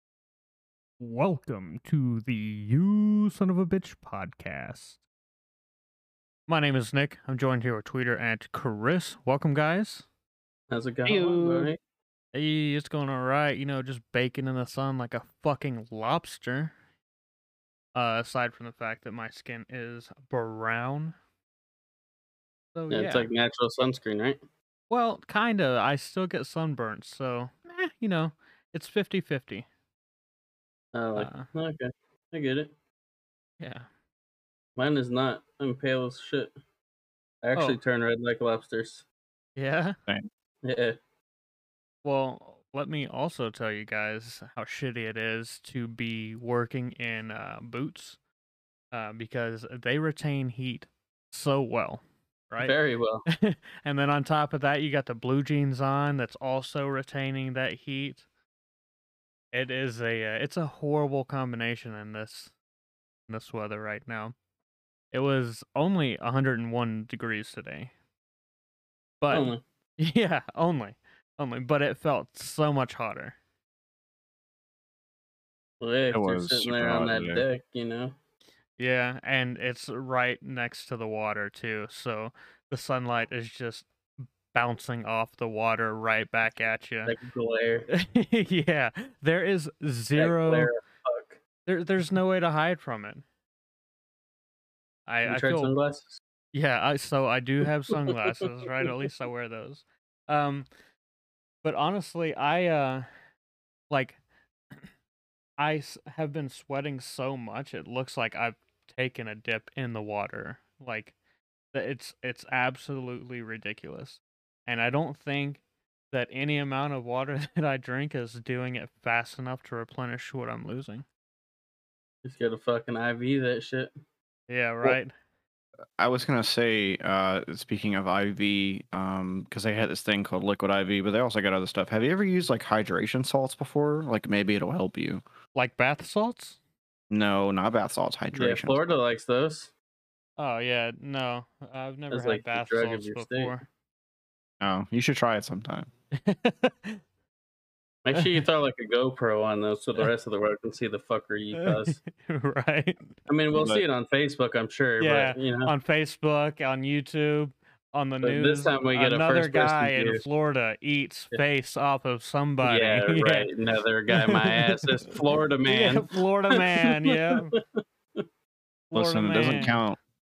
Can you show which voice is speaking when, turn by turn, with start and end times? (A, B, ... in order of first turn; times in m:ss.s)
0:01.0-0:05.0 A
0:06.5-0:10.1 A
0:10.7-0:11.8 B
0:11.1-0:11.7 C
0:12.3-0:16.7 A
0:18.0-0:21.2 A
0:22.8-0:23.3 A
0:22.9-0:24.4 B
0:24.9-0:29.7 A
0:30.9-0:32.7 B
0:31.2-0:31.5 A
0:33.6-0:33.9 A
0:34.8-0:36.5 B
0:37.4-0:39.0 B
0:39.6-0:40.0 A
0:40.6-0:41.0 B
0:42.0-0:48.2 A
0:48.9-0:52.8 A
0:52.6-0:53.3 B
0:53.3-0:58.2 A
0:59.5-1:02.5 A
1:03.3-1:04.4 A
1:05.1-1:07.9 A
1:09.2-1:13.4 A
1:09.3-1:09.6 B
1:15.8-1:18.2 B
1:16.1-1:17.4 C
1:18.8-1:23.9 A
1:24.5-1:27.2 A
1:27.1-1:27.9 B
1:27.9-1:30.7 A
1:30.2-1:31.4 B
1:31.6-1:33.2 A
1:35.1-1:35.7 A
1:35.2-1:36.2 B
1:36.5-1:40.7 A
1:41.6-1:43.1 A
1:43.9-1:44.2 A
1:45.6-1:51.1 A
1:51.7-2:01.0 A
2:02.2-2:03.9 B
2:04.5-2:05.1 A
2:06.0-2:15.2 C
2:15.6-2:16.6 A
2:17.1-2:18.8 C
2:18.4-2:19.7 B
2:20.4-2:23.7 A
2:22.1-2:23.5 B
2:24.6-2:25.9 C
2:26.1-2:27.0 A
2:28.0-2:32.0 B
2:28.1-2:28.4 A
2:31.6-2:33.2 A
2:33.3-2:35.7 B
2:33.5-2:33.8 C
2:35.0-2:43.5 A
2:38.2-2:40.2 B
2:42.6-2:47.6 B
2:44.1-2:45.0 A
2:45.6-2:47.5 A
2:48.9-2:49.8 A
2:48.9-2:50.0 C